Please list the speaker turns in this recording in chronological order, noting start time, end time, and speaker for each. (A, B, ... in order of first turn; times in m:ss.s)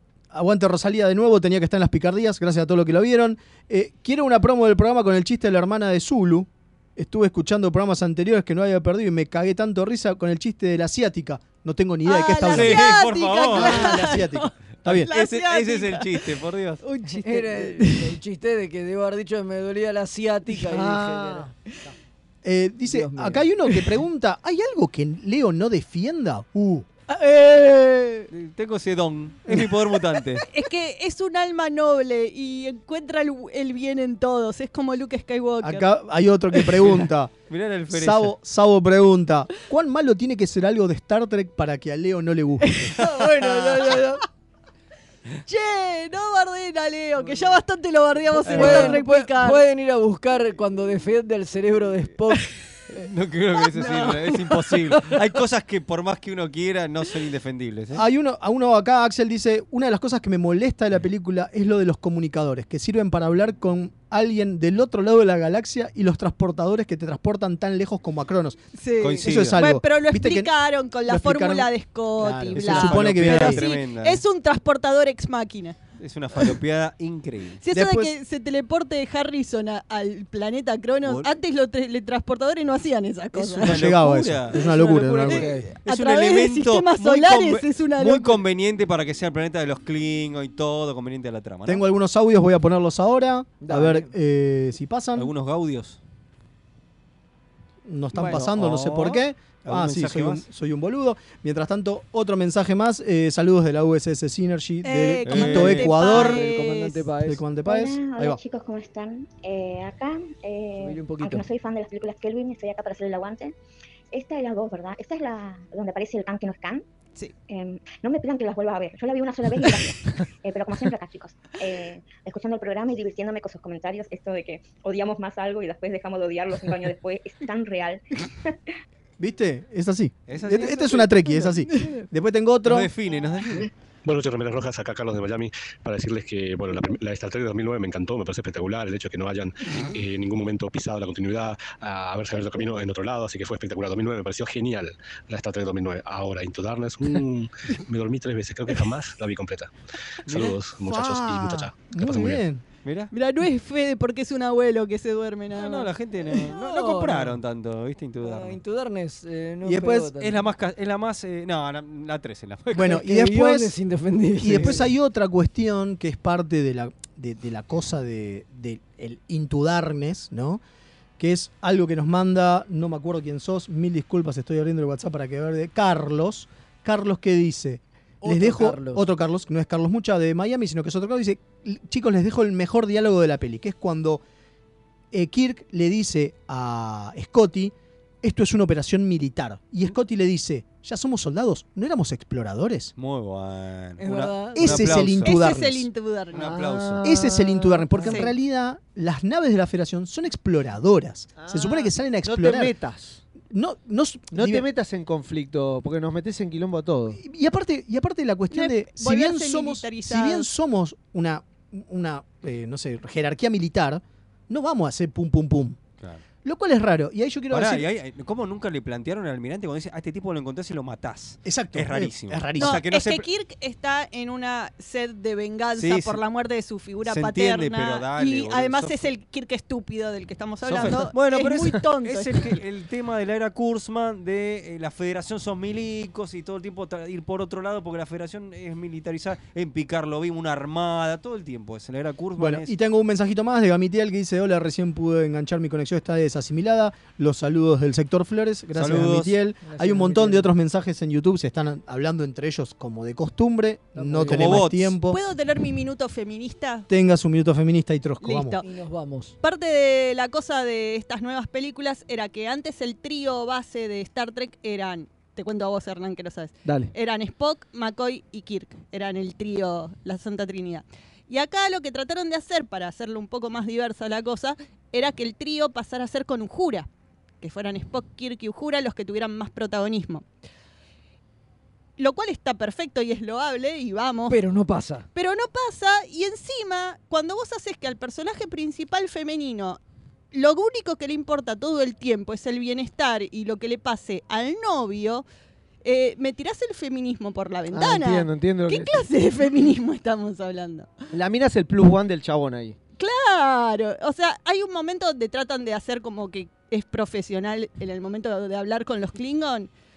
0:00.3-0:13.0 A
0:12.0-0:16.3 B
0:12.4-0:14.2 C
0:13.5-0:15.1 A
0:14.8-0:16.8 C
0:16.8-0:18.1 B
0:17.2-0:21.5 D
0:20.6-0:21.9 E
0:22.4-0:28.3 A
0:22.8-0:23.5 D
0:28.3-0:30.5 C
0:30.4-0:35.9 B
0:35.6-0:37.3 A
0:36.8-0:38.3 C
0:37.9-0:42.9 A
0:42.7-0:43.2 B
0:43.0-0:44.2 D
0:45.4-0:49.6 B
0:48.4-0:52.4 D
0:48.7-0:49.0 A
0:52.9-0:58.0 C
0:53.8-0:54.1 D
0:57.9-1:08.6 A
1:08.7-1:15.8 B
1:09.0-1:09.6 C
1:09.2-1:10.5 A
1:11.0-1:13.6 A
1:12.5-1:14.2 C
1:16.0-1:17.6 C
1:17.6-1:23.8 B
1:17.7-1:18.1 A
1:23.4-1:25.5 A
1:23.6-1:24.6 C
1:24.6-1:25.7 E
1:25.3-1:31.8 C
1:25.3-1:28.4 B
1:31.6-1:35.3 A
1:33.6-1:34.1 D
1:35.1-1:36.0 C
1:37.8-1:46.4 A
1:38.2-1:40.4 C
1:44.8-1:47.0 B
1:45.2-1:46.0 C
1:45.4-1:47.4 D
1:47.2-1:48.4 A
1:47.6-1:53.5 F
1:50.8-1:51.4 D
1:54.1-1:56.8 F
1:57.5-2:08.5 F
2:09.2-2:12.9 A
2:10.3-2:11.1 C
2:12.6-2:13.7 C
2:14.0-2:29.7 G
2:30.2-2:30.6 C
2:30.3-2:32.4 G
2:30.8-2:32.6 A
2:32.8-2:33.1 C
2:33.1-2:35.9 B
2:35.5-2:38.6 C
2:36.3-2:37.4 D
2:38.2-2:40.4 D
2:39.6-2:40.1 A
2:40.2-2:43.0 C
2:42.7-2:43.7 A
2:42.9-2:44.9 D
2:44.4-2:50.6 A
2:44.5-2:44.8 C
2:51.2-3:04.2 A
2:58.2-2:59.0 D
3:05.1-3:12.9 A
3:13.0-3:15.4 C
3:14.0-3:15.0 D
3:14.5-3:15.9 A
3:15.2-3:16.6 B
3:16.3-3:17.0 C
3:16.3-3:18.2 E
3:17.0-3:22.7 A
3:18.0-3:18.3 B
3:21.4-3:23.2 E
3:23.5-3:24.6 A
3:24.3-3:27.2 E
3:27.2-3:35.8 A
3:28.5-3:30.5 B
3:36.4-3:37.8 A
3:37.5-3:43.3 C
3:41.4-3:42.8 A
3:42.6-3:52.6 B
3:45.8-3:46.2 C
3:47.0-3:49.1 C
3:50.6-4:02.7 C
4:02.4-4:15.2 A
4:08.8-4:09.3 C
4:09.6-4:10.5 D
4:13.9-4:14.6 D
4:14.3-4:15.0 C
4:15.0-4:16.8 B
4:16.9-4:18.6 A
4:18.2-4:18.6 B
4:18.6-4:19.3 D
4:19.4-4:36.9 B
4:26.6-4:26.9 E
4:37.4-4:40.2 B
4:42.0-4:44.4 B
4:44.3-4:45.1 D
4:45.1-4:49.8 B
4:50.3-4:55.2 B
4:55.8-5:01.0 B
4:57.7-4:59.1 E
5:01.1-5:02.8 E
5:03.0-5:09.7 B